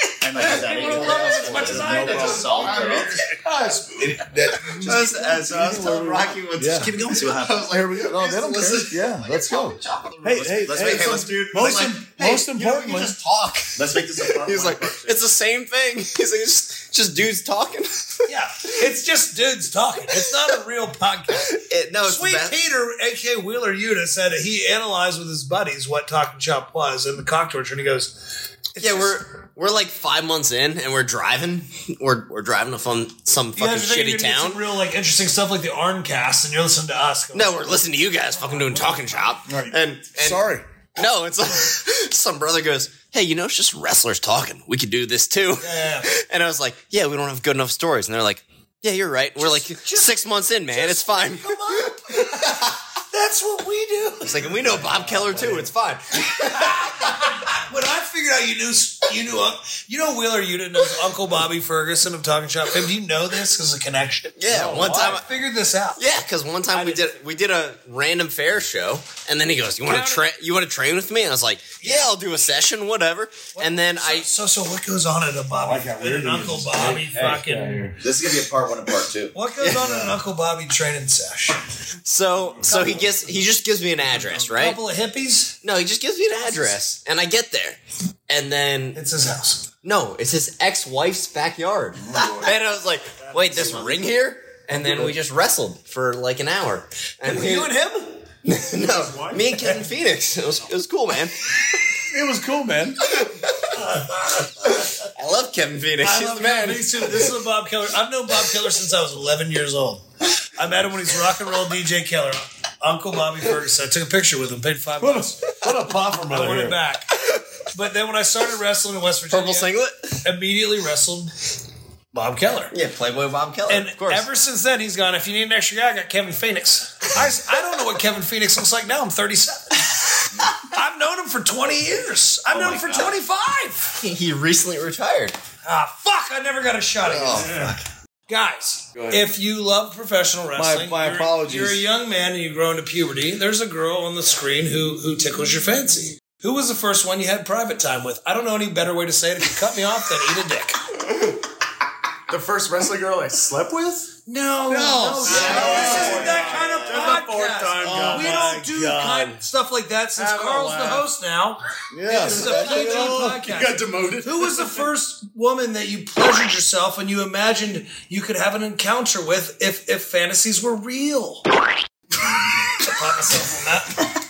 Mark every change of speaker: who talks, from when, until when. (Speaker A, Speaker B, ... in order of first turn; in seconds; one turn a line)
Speaker A: 0.2-3.2
Speaker B: 0.4-3.3
Speaker C: 0.4-3.2
Speaker D: 1.9-2.5
Speaker D: 3.2-7.0
Speaker B: 4.6-18.3
Speaker A: 4.8-8.1
Speaker D: 7.7-13.2
Speaker A: 10.3-12.7
Speaker A: 13.7-15.3
Speaker C: 18.3-29.2
Speaker B: 20.1-20.4
Speaker B: 21.4-22.6
Speaker B: 28.8-34.6
Speaker C: 33.5-37.7
Speaker B: 37.3-52.7
Speaker D: 39.5-40.6
Speaker C: 45.6-46.1
Speaker C: 49.4-54.6
Speaker B: 54.2-56.9
Speaker D: 54.6-55.7
Speaker C: 56.4-66.0
Speaker B: 64.4-65.2
Speaker D: 64.5-65.2
Speaker B: 66.0-74.3
Speaker C: 66.7-67.1
Speaker C: 69.8-70.3
Speaker C: 71.8-72.2
Speaker C: 73.5-77.9
Speaker D: 75.6-78.0
Speaker A: 78.0-79.4
Speaker C: 79.3-81.6
Speaker B: 79.6-79.9
Speaker B: 82.0-84.8
Speaker C: 82.6-83.2
Speaker C: 84.1-85.6
Speaker B: 85.6-89.0
Speaker C: 86.3-86.8
Speaker C: 88.9-89.7
Speaker B: 89.8-97.8
Speaker D: 92.0-92.5
Speaker D: 94.7-95.2
Speaker C: 97.2-98.2
Speaker B: 98.4-101.8
Speaker E: 98.8-99.4
Speaker C: 99.2-99.8
Speaker D: 102.1-103.1
Speaker B: 103.1-103.8
Speaker C: 103.8-104.5
Speaker B: 104.6-107.3
Speaker C: 106.0-115.7
Speaker D: 115.0-116.8
Speaker C: 116.3-117.2
Speaker C: 117.7-121.3
Speaker B: 119.3-120.2
Speaker C: 122.1-122.8
Speaker B: 122.7-124.3
Speaker C: 123.7-134.1
Speaker A: 132.6-133.1
Speaker B: 134.0-135.4
Speaker C: 135.6-137.7
Speaker B: 137.1-137.8
Speaker E: 137.4-137.8
Speaker C: 138.3-150.9
Speaker D: 138.9-139.3
Speaker D: 140.6-141.8
Speaker E: 152.3-154.1
Speaker C: 154.3-171.5
Speaker D: 154.7-156.7
Speaker E: 155.2-158.5
Speaker A: 155.3-157.1
Speaker D: 157.8-159.5
Speaker E: 160.2-161.1
Speaker D: 161.9-163.4
Speaker E: 162.2-164.9
Speaker C: 172.7-174.1